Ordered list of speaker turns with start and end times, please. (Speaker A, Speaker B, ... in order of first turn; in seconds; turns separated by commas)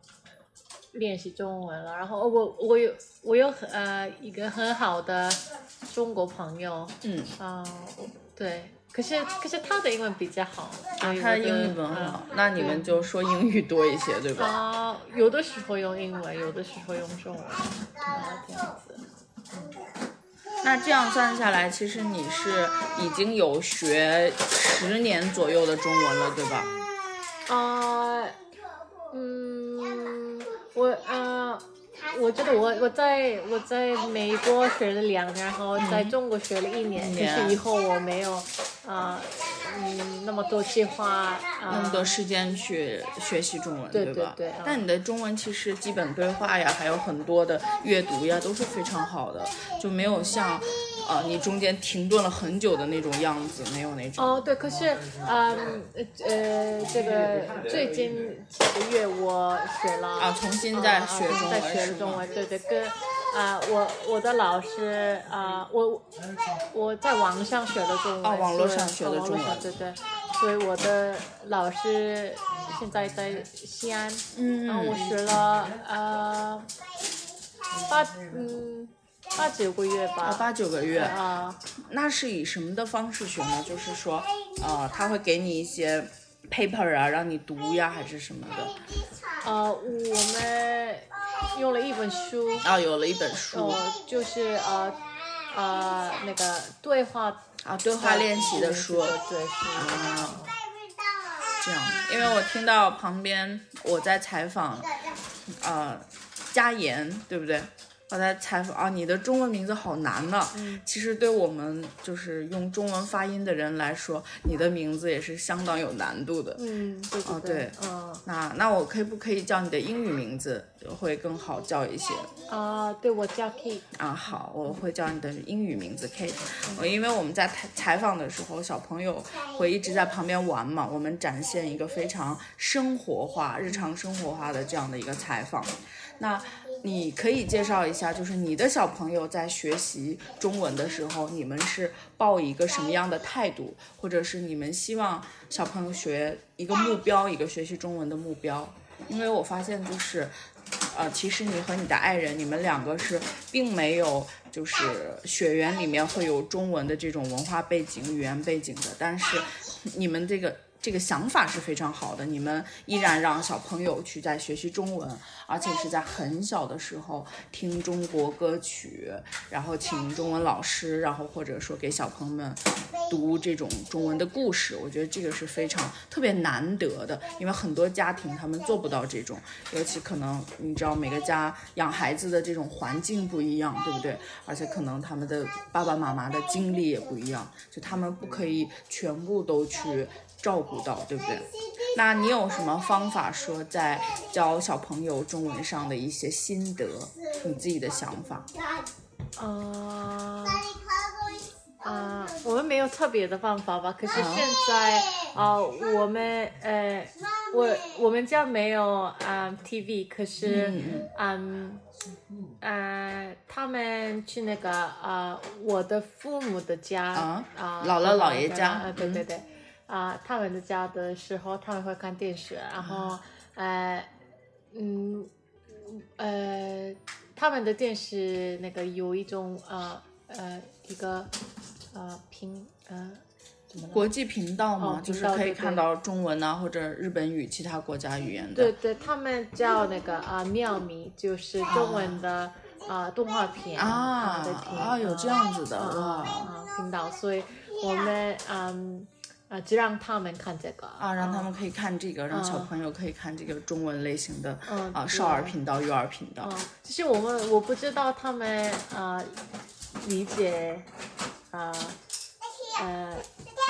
Speaker A: 0.9-13.1, Speaker B: 7.0-7.3, Speaker B: 11.0-14.6, Speaker A: 14.4-19.7, Speaker B: 20.6-26.7, Speaker A: 27.5-28.4, Speaker A: 29.1-42.1, Speaker B: 35.8-36.1, Speaker B: 37.0-37.6, Speaker B: 41.7-54.5, Speaker A: 43.9-44.8, Speaker A: 50.0-50.4, Speaker A: 54.2-66.1, Speaker B: 60.2-62.2, Speaker A: 66.7-76.7, Speaker B: 68.2-69.7, Speaker B: 74.3-75.1, Speaker A: 77.8-81.6, Speaker B: 80.2-81.2, Speaker B: 81.8-88.8, Speaker A: 89.4-92.7, Speaker B: 92.6-93.8, Speaker A: 93.5-97.4, Speaker B: 97.6-99.2, Speaker A: 98.0-100.6, Speaker B: 99.8-100.4, Speaker B: 101.6-105.0, Speaker B: 105.5-116.6, Speaker A: 110.5-110.8, Speaker A: 116.6-118.2, Speaker B: 117.2-122.3, Speaker A: 122.5-123.9, Speaker B: 123.9-150.3, Speaker B: 150.9-198.5, Speaker A: 199.4-200.7, Speaker A: 201.8-211.8, Speaker B: 204.1-204.5, Speaker B: 210.4-211.1, Speaker A: 212.6-224.1, Speaker B: 217.2-219.2, Speaker B: 222.8-223.2, Speaker A: 224.7-231.3, Speaker A: 231.9-234.1, Speaker B: 233.9-238.7, Speaker A: 234.8-235.8, Speaker A: 238.5-251.5, Speaker B: 241.7-242.2, Speaker B: 243.8-246.5, Speaker B: 251.0-256.5, Speaker A: 252.3-252.7, Speaker A: 254.7-255.6, Speaker A: 256.4-260.9, Speaker A: 261.5-262.0, Speaker A: 262.7-263.3